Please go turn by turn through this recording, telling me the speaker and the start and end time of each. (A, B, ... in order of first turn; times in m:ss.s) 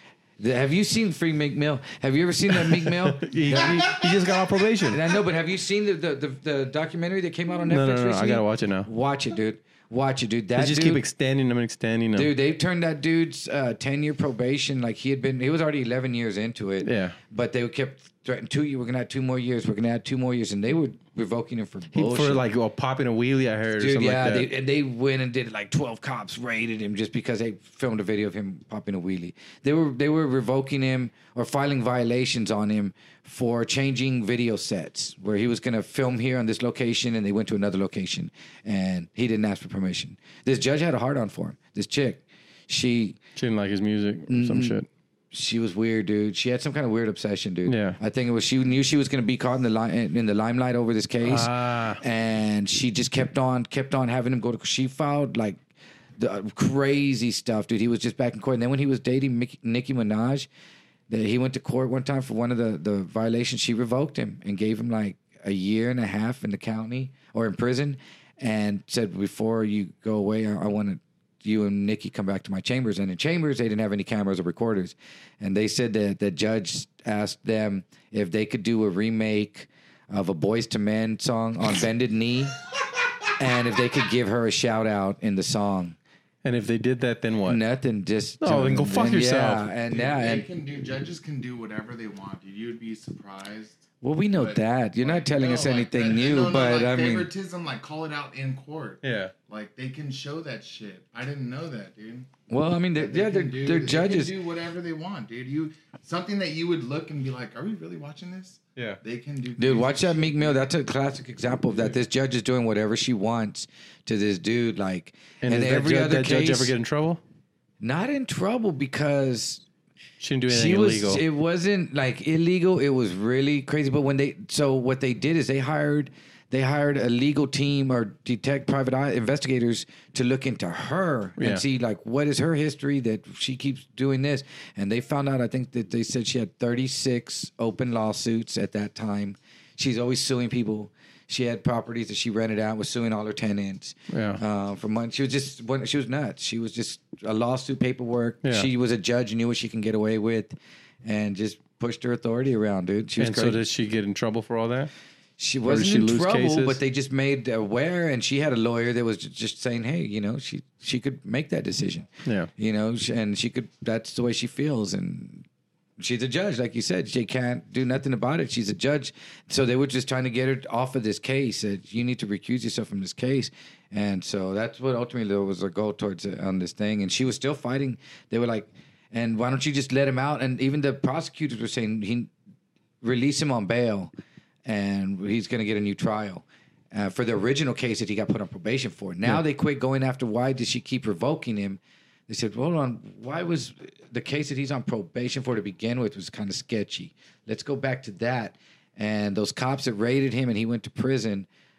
0:00.4-0:04.0 A
0:02.5-0:05.0 B
0:04.8-0:11.0 A
0:07.7-0:08.9 B
0:10.6-0:12.3 B
0:12.1-0:22.4 A
0:16.8-0:17.2 B
0:21.9-0:24.5 B
0:23.8-0:43.2 A
0:43.4-0:44.9 B
0:44.3-0:44.8 A
0:45.3-0:55.6 A
0:47.7-0:48.0 B
0:51.2-0:52.0 B
0:56.2-1:00.5 A
1:01.1-1:22.6 A
1:23.4-1:26.0 A
1:26.4-1:27.6 B
1:27.5-1:30.5 A
1:28.4-1:29.7 B
1:29.9-1:42.3 C
1:34.0-1:37.3 A
1:39.0-1:39.3 B
1:42.5-1:44.4 A
1:43.0-1:50.6 C
1:49.6-1:56.7 A
1:55.4-1:57.2 B
1:57.8-1:59.6 A
2:00.2-2:01.2 B
2:00.5-2:33.6 A
2:11.4-2:11.6 B
2:24.1-2:24.4 B
2:28.4-2:28.7 B
2:33.2-2:34.9 B
2:35.4-2:45.5 A
2:35.7-2:36.8 B
2:42.2-2:42.5 B
2:46.0-3:02.3 A
3:03.0-3:04.1 A
3:04.7-3:21.5 A